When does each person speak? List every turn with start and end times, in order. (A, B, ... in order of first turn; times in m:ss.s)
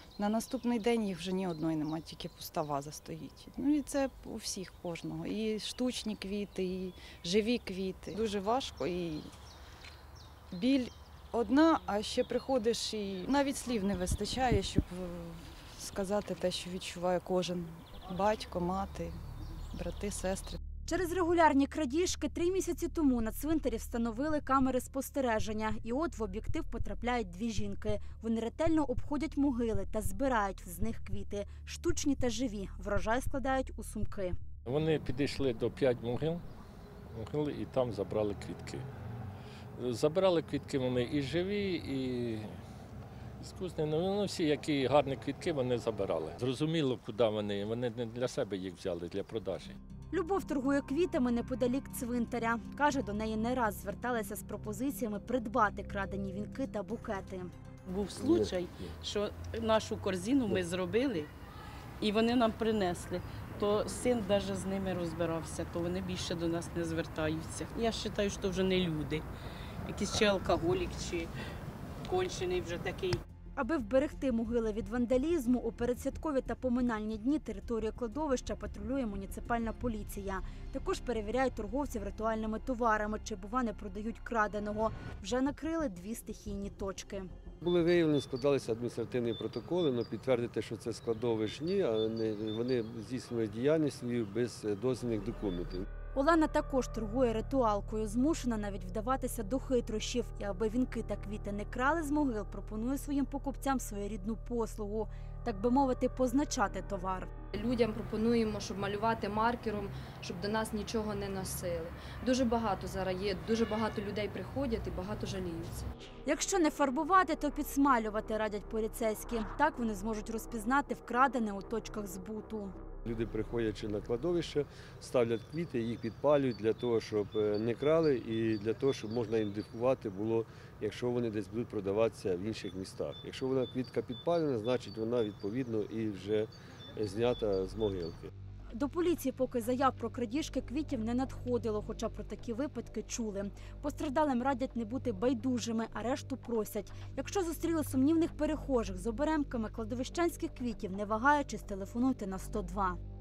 0:00.2-0:09.3 A
0:10.5-0:19.2 A
0:19.7-0:20.6 A
0:20.8-0:34.3 B
0:34.7-0:36.4 C
0:37.1-0:38.8 C
0:39.8-0:42.5 C
0:43.4-0:49.8 C
0:50.1-0:57.5 B
0:57.9-1:01.3 D
1:02.0-1:09.2 D
1:09.9-1:11.3 D
1:12.0-1:13.2 D
1:13.6-1:27.3 B
1:27.6-1:35.8 E
1:36.1-1:47.3 B
1:47.5-1:55.8 F
1:56.2-2:02.7 B
2:03.0-2:18.3 E
2:18.7-2:33.0 B